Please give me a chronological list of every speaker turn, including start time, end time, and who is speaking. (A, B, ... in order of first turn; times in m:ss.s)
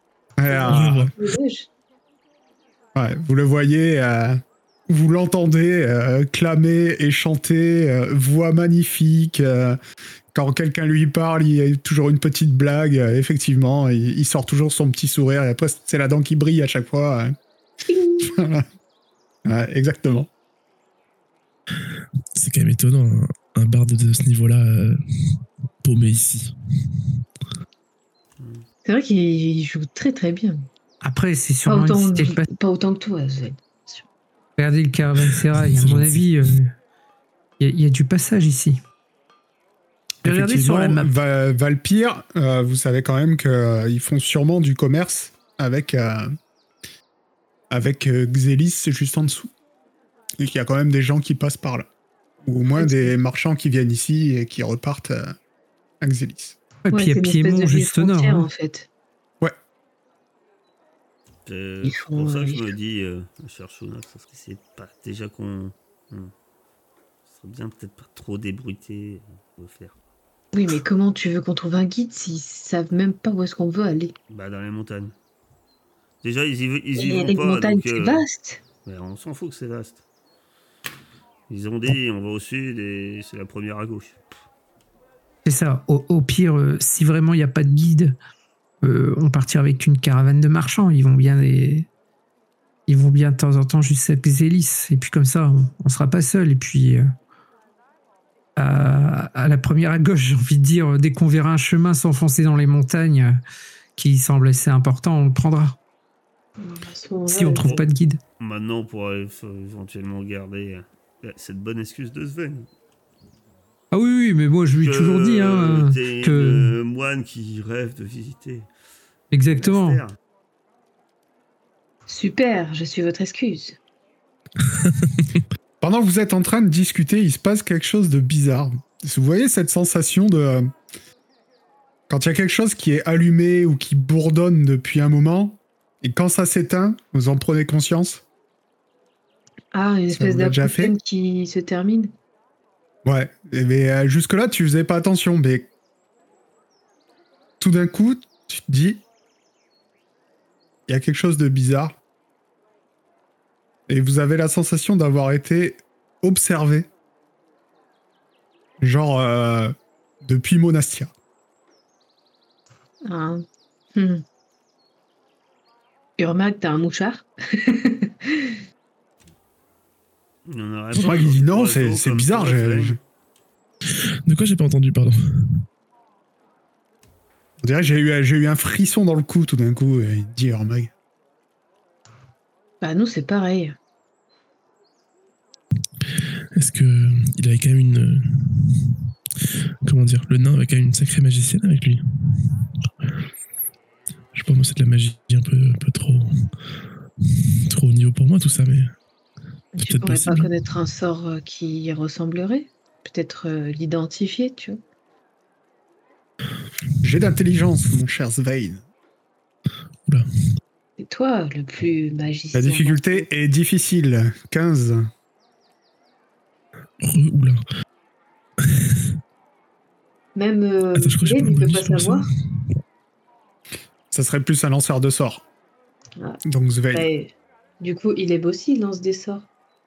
0:00.4-0:01.1 A
0:00.5-0:01.7 B
0:00.7-0:01.1 C
0:02.9-0:09.8 A
0:10.3-0:17.4 A
0:17.9-0:18.3 B
0:18.2-0:18.6 A
0:19.4-0:20.3 A
0:22.3-0:26.5 C
0:28.8-0:30.7 B
0:31.0-0:32.4 D
0:31.6-0:34.0 B
0:34.6-0:36.7 D
0:35.6-0:36.3 C
0:37.6-0:38.8 D
0:40.2-0:46.3 A
0:40.2-0:41.1 D
0:47.7-0:49.5 A
0:50.4-0:51.9 A
0:52.4-0:55.3 A
0:52.7-0:53.1 B
0:56.0-0:56.6 A
0:56.9-0:58.5 D
0:56.9-0:58.9 B
1:01.4-1:06.3 E
1:01.8-1:02.7 B
1:07.3-1:10.0 E
1:10.5-1:14.1 B
1:14.3-1:15.1 E
1:16.2-1:18.2 E
1:17.0-1:18.6 B
1:18.8-1:20.0 E
1:21.5-1:24.2 E
1:25.4-1:28.2 D
1:28.8-1:31.9 D
1:32.9-1:37.0 D
1:38.6-1:43.4 D
1:44.0-1:45.8 D
1:46.6-1:47.8 B
1:47.3-1:48.2 D
1:48.4-1:52.7 E
1:53.9-1:56.7 D
1:54.8-1:58.7 E
1:59.3-2:00.0 D
1:59.6-2:00.2 E
2:02.1-2:03.8 B
2:04.6-2:05.4 C
2:05.8-2:10.7 A
2:12.1-2:18.2 A
2:19.7-2:22.1 B
2:20.2-2:20.9 A
2:23.0-2:25.7 A
2:27.6-2:29.0 A
2:30.9-2:32.0 A
2:33.9-2:36.9 A
2:38.8-2:41.1 A
2:43.0-2:43.4 B
2:43.9-2:44.2 B
2:46.2-2:48.6 B
2:50.5-2:53.0 E
2:50.9-2:53.0 A
2:54.2-2:55.6 C
2:57.6-3:00.9 A
3:02.8-3:03.7 B
3:06.5-3:09.0 C
3:09.8-3:12.5 C
3:14.3-3:16.3 C
3:17.2-3:18.9 C
3:19.8-3:24.8 B
3:19.8-3:20.5 C
3:27.0-3:28.8 A
3:31.0-3:33.3 B
3:32.5-3:35.1 A
3:37.0-3:37.6 C
3:38.6-3:39.1 C
3:40.4-3:42.3 B
3:41.0-3:42.6 C
3:44.1-3:45.4 A
3:46.4-3:47.1 A
3:46.9-3:49.5 B